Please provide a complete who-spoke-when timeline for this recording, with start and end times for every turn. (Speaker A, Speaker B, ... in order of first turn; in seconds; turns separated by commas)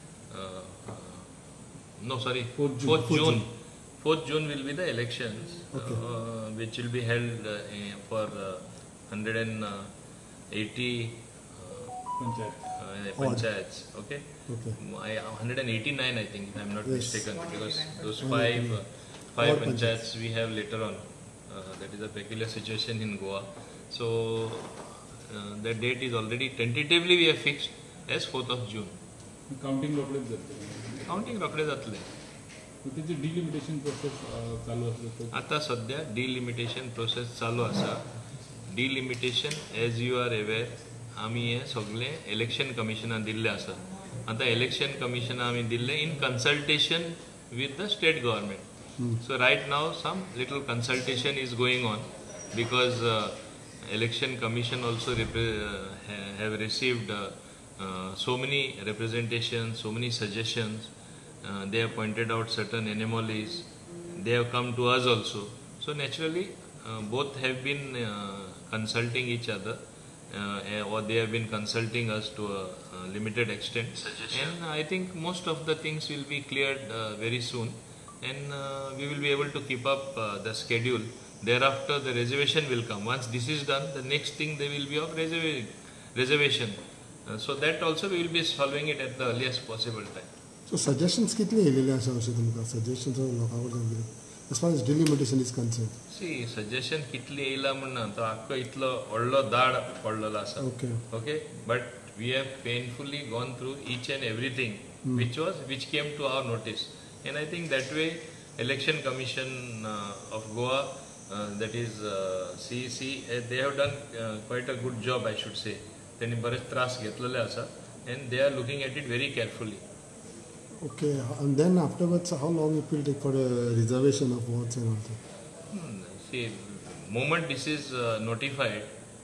Speaker A: 0.3-1.3, Speaker A: 2.0-9.9, Speaker B: 2.5-3.2, Speaker C: 3.0-3.4, Speaker C: 5.7-6.0, Speaker A: 10.5-12.1, Speaker B: 12.2-12.6, Speaker A: 12.8-14.2, Speaker C: 13.2-13.4, Speaker C: 14.5-14.8, Speaker A: 14.8-28.9, Speaker C: 16.8-17.2, Speaker C: 18.2-18.8, Speaker C: 19.4-20.0, Speaker B: 29.5-31.3, Speaker A: 31.1-32.1, Speaker B: 32.8-35.4, Speaker A: 35.3-38.1, Speaker A: 38.6-48.6, Speaker A: 49.2-60.9, Speaker A: 61.4-69.8, Speaker A: 70.3-90.3, Speaker C: 90.7-95.9, Speaker A: 96.1-119.8, Speaker C: 100.6-101.0, Speaker C: 120.8-125.2, Speaker A: 125.7-128.9